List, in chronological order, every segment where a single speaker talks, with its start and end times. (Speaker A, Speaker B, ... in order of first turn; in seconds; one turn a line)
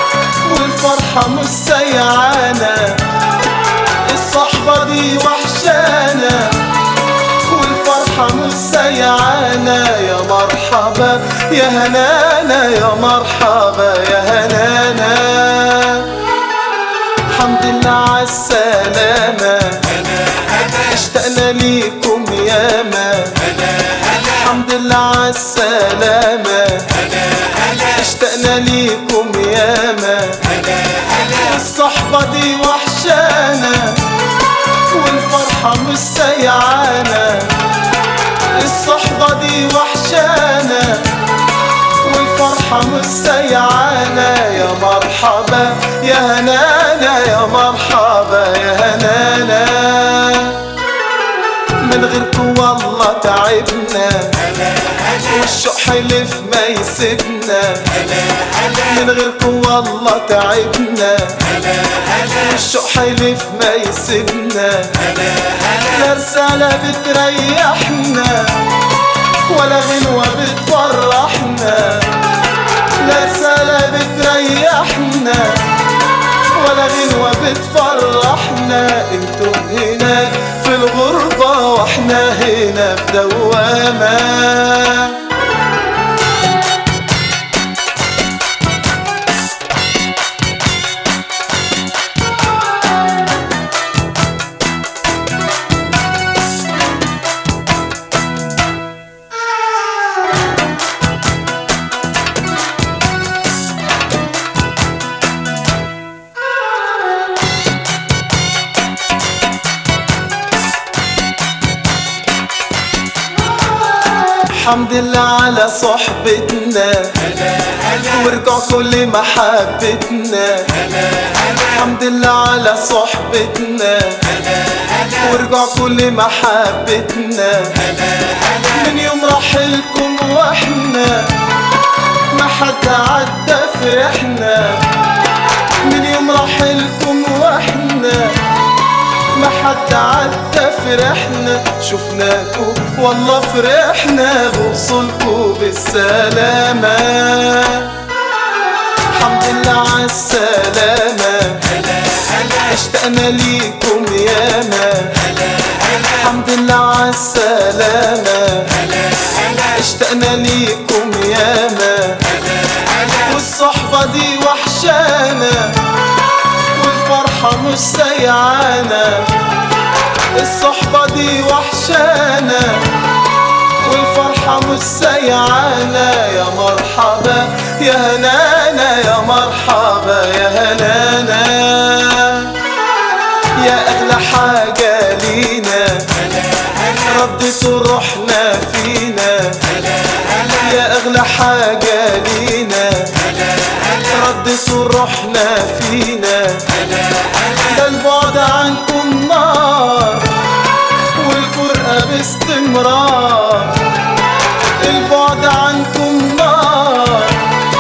Speaker A: 0.4-3.1
Speaker A: 4.0-6.7
Speaker A: 7.4-16.2
Speaker A: 17.3-34.2
Speaker A: 34.9-37.6
Speaker A: 38.5-41.2
Speaker A: 42.0-50.7
Speaker A: 51.8-68.8
Speaker A: 69.5-72.2
Speaker A: 73.0-75.8
Speaker A: 76.5-85.2
Speaker A: 114.4-117.3
Speaker A: 118.0-120.9
Speaker A: 121.5-124.4
Speaker A: 125.0-131.5
Speaker A: 132.3-134.9
Speaker A: 135.8-138.5
Speaker A: 139.3-148.0
Speaker A: 149.1-165.9
Speaker A: 166.7-169.4
Speaker A: 170.3-173.0
Speaker A: 173.8-182.7
Speaker A: 183.5-196.9
Speaker A: 197.4-200.4
Speaker A: 201.1-203.9
Speaker A: 204.8-207.6